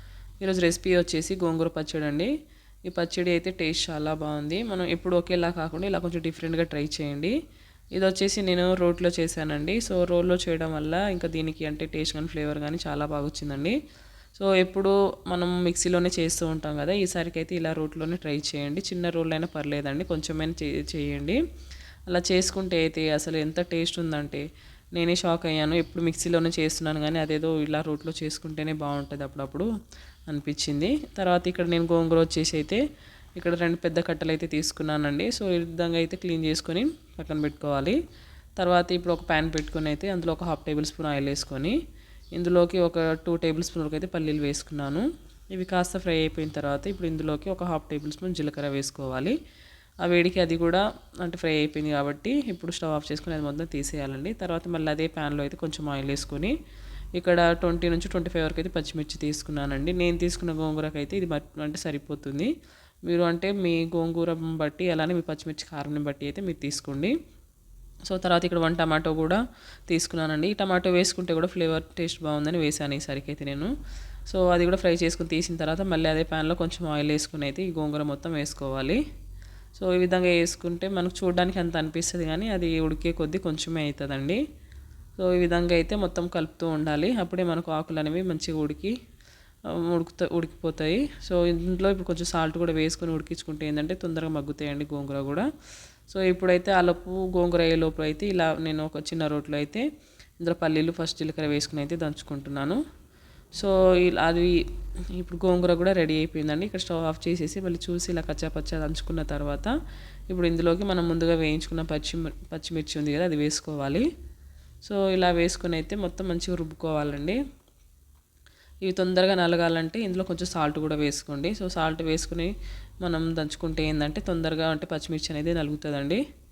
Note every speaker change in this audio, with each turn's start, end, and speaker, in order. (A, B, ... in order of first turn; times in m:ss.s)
0:00.4-0:02.3 A
0:02.9-0:07.3 A
0:07.9-0:13.8 A
0:14.4-0:21.4 A
0:22.1-0:24.4 A
0:24.9-0:29.7 A
0:30.3-0:32.8 A
0:33.4-0:38.0 A
0:38.6-0:41.8 A
0:42.3-0:49.4 A
0:50.0-0:56.5 A
0:57.2-1:02.5 A
1:03.0-1:07.1 A
1:08.1-1:13.7 A
1:14.3-1:19.0 A
1:19.8-1:24.4 A
1:25.2-1:28.9 A
1:29.8-1:35.5 A
1:36.1-1:39.8 A
1:40.4-1:42.8 A
1:43.6-1:44.5 A
1:45.1-1:49.7 A
1:50.3-1:54.0 A
1:54.8-1:57.4 A
1:58.8-2:06.2 A